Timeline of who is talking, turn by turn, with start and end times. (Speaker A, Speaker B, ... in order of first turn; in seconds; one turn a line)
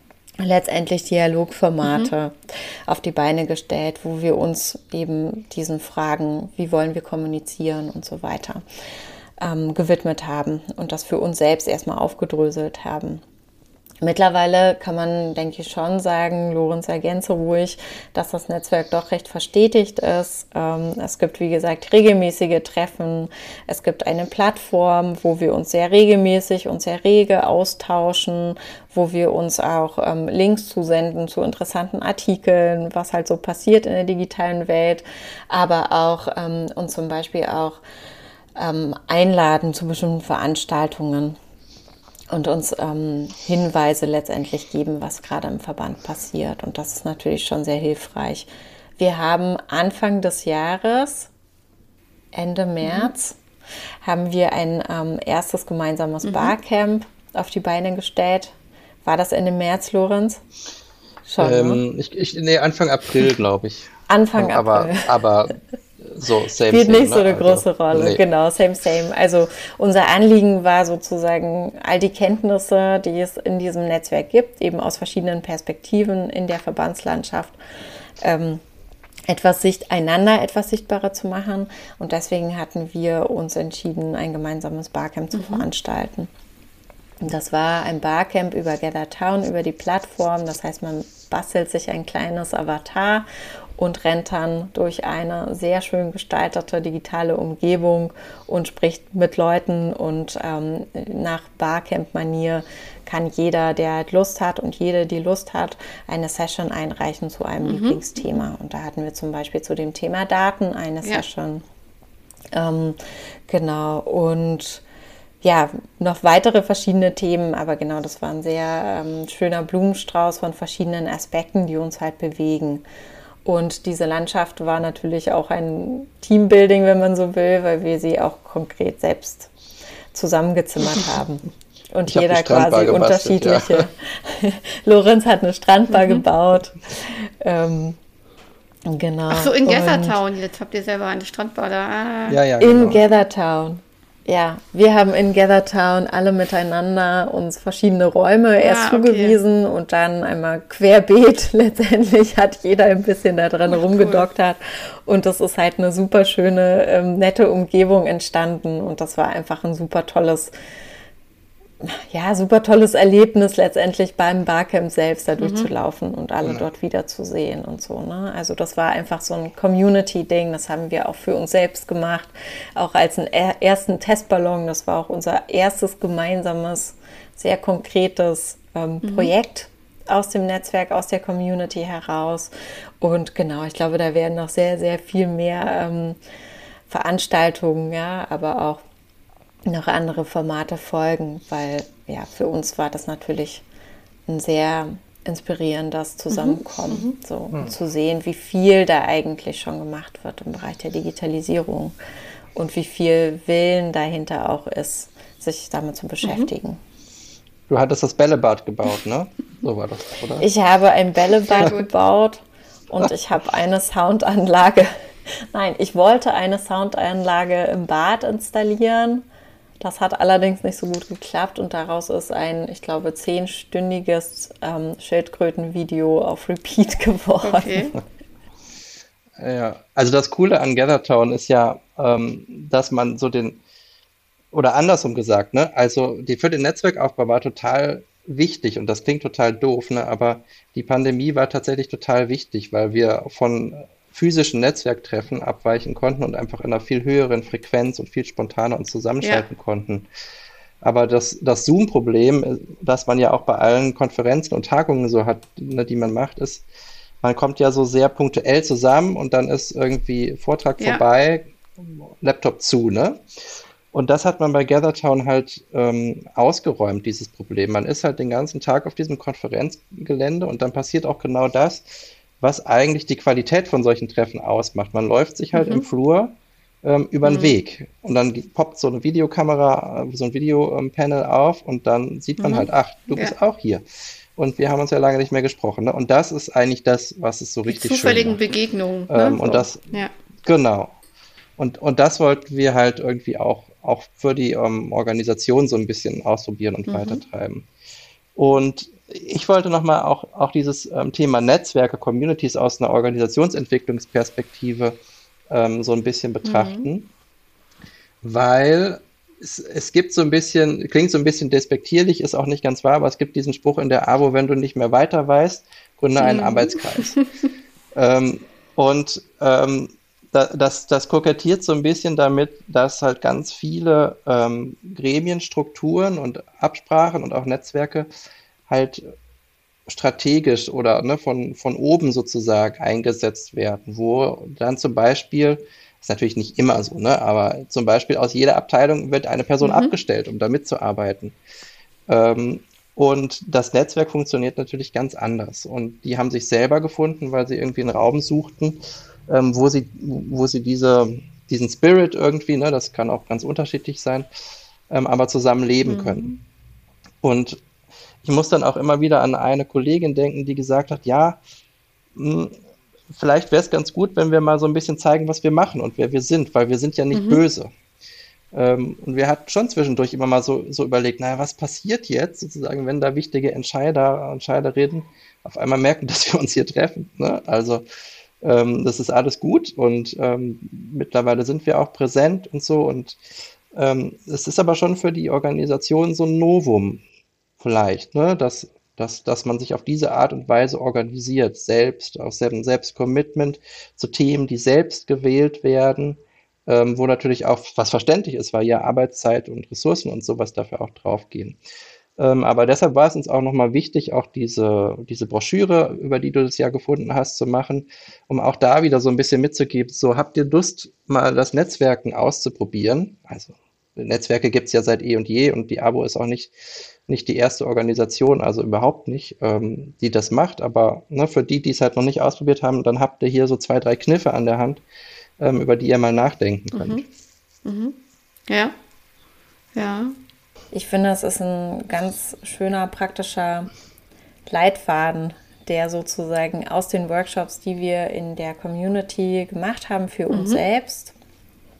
Speaker A: 0.4-8.6
Speaker B: 1.8-2.1
Speaker A: 9.4-13.2
Speaker A: 14.0-37.8
Speaker A: 38.5-41.4
Speaker A: 42.3-51.3
Speaker A: 52.3-53.4
Speaker B: 52.8-53.1
Speaker A: 54.0-60.4
Speaker B: 56.2-56.5
Speaker A: 61.2-61.8
Speaker C: 61.4-68.2
Speaker A: 64.1-65.1
Speaker A: 66.7-77.6
Speaker A: 78.2-78.6
Speaker A: 79.3-86.3
Speaker B: 85.3-85.7
Speaker A: 87.2-111.6
Speaker B: 107.6-108.0
Speaker A: 112.5-114.8
Speaker A: 115.4-122.8
Speaker A: 123.4-129.5
Speaker A: 130.1-138.0
Speaker C: 132.1-133.9
Speaker B: 135.9-136.2
Speaker A: 138.8-140.2
Speaker B: 139.3-142.4
Speaker C: 142.3-143.0
Speaker A: 142.6-160.5
Speaker B: 148.6-149.4
Speaker B: 153.7-154.2
Speaker A: 161.8-186.2
Speaker B: 165.4-165.7
Speaker B: 179.0-179.3
Speaker A: 186.9-188.8
Speaker A: 189.7-193.6
Speaker A: 194.3-201.9
Speaker B: 196.3-197.1
Speaker A: 202.5-206.8
Speaker B: 206.2-206.5
Speaker C: 207.7-210.5
Speaker A: 210.4-219.2
Speaker B: 211.5-211.9
Speaker A: 219.8-228.0
Speaker B: 227.4-228.0
Speaker C: 229.4-233.6
Speaker C: 234.5-250.1
Speaker C: 250.8-256.6
Speaker C: 257.2-263.2
Speaker C: 263.9-283.8
Speaker B: 275.5-275.9
Speaker B: 277.2-277.5
Speaker B: 282.4-283.3
Speaker C: 284.4-288.4
Speaker B: 287.7-290.1
Speaker C: 289.1-289.9
Speaker C: 290.4-290.9
Speaker C: 291.6-297.6
Speaker B: 296.9-297.2
Speaker C: 298.4-305.0
Speaker C: 305.5-307.1
Speaker B: 306.4-306.9
Speaker C: 308.2-317.2
Speaker B: 316.2-317.2
Speaker C: 317.9-328.1
Speaker C: 328.7-329.1
Speaker C: 329.9-341.3
Speaker B: 339.6-339.9
Speaker C: 342.1-354.3
Speaker C: 354.9-356.4
Speaker B: 355.9-356.4
Speaker C: 357.2-357.6
Speaker C: 358.2-361.4
Speaker C: 362.1-362.5
Speaker C: 363.1-367.7
Speaker B: 367.1-367.4
Speaker C: 368.5-377.8
Speaker C: 378.4-383.2
Speaker C: 383.7-387.0
Speaker C: 387.6-401.6
Speaker C: 402.2-416.5
Speaker C: 417.1-424.8
Speaker C: 425.4-427.0
Speaker B: 426.7-427.0
Speaker B: 427.6-428.0
Speaker B: 428.5-428.7
Speaker B: 429.7-430.1
Speaker A: 430.7-433.7
Speaker A: 434.4-441.1
Speaker B: 440.3-440.6